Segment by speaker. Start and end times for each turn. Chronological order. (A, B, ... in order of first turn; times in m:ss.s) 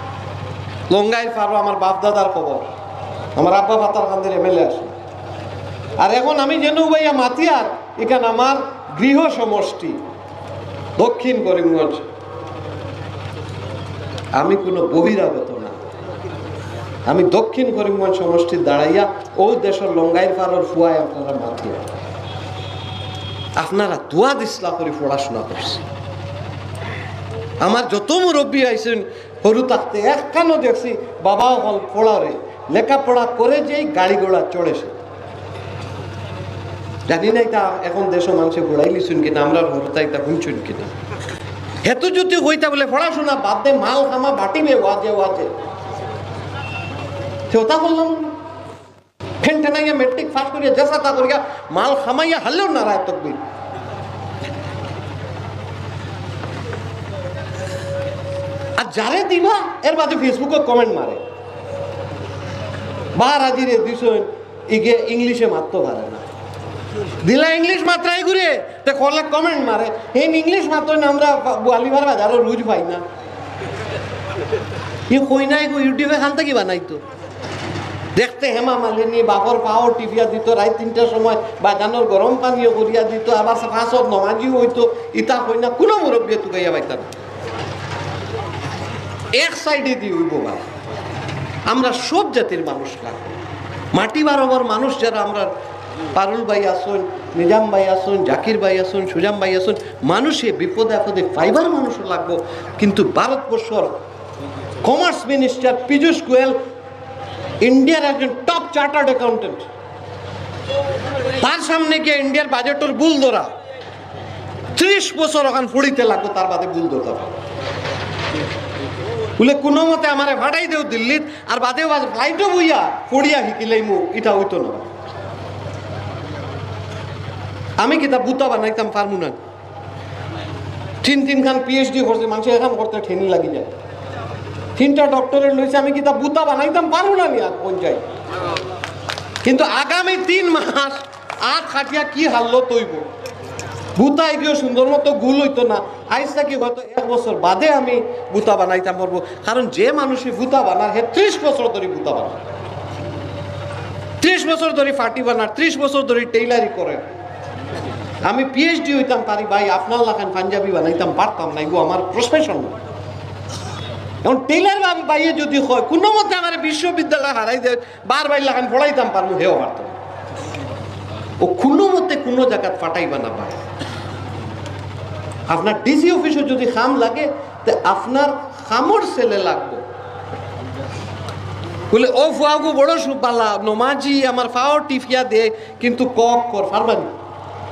0:00.9-0:02.6 A
0:03.4-0:04.9 A
0:06.0-0:10.0 A
0:11.0-0:12.0 A
0:14.3-0:15.8 A
0:17.0-0:21.9 A
0:23.6-0:25.8 A
0:27.6-0:34.9 A
0:37.1-0:40.9 A
0:41.8-0:45.5 A
0:47.5-0:48.4 A
0:49.4-0:53.4 A
0:58.8-1:01.2 A
1:03.2-1:06.2 A
1:07.2-1:13.0 A
1:15.1-1:17.0 A
1:18.2-1:27.1 A
1:29.3-1:30.7 A
1:31.7-1:33.4 A
1:33.9-1:35.5 A
1:36.1-1:43.9 A
1:44.8-1:46.6 A
1:47.6-1:49.7 A
1:51.4-1:53.5 A
1:54.7-1:57.4 A
1:59.4-2:04.9 A
2:07.8-2:09.4 A
2:11.0-2:13.7 A
2:14.8-2:18.0 A
2:19.4-2:23.1 A
2:24.0-2:32.4 A
2:34.2-2:37.0 A
2:38.2-2:42.8 A
2:44.2-2:50.0 A
2:51.4-2:53.6 A
2:55.5-2:59.8 A
3:01.9-3:07.1 A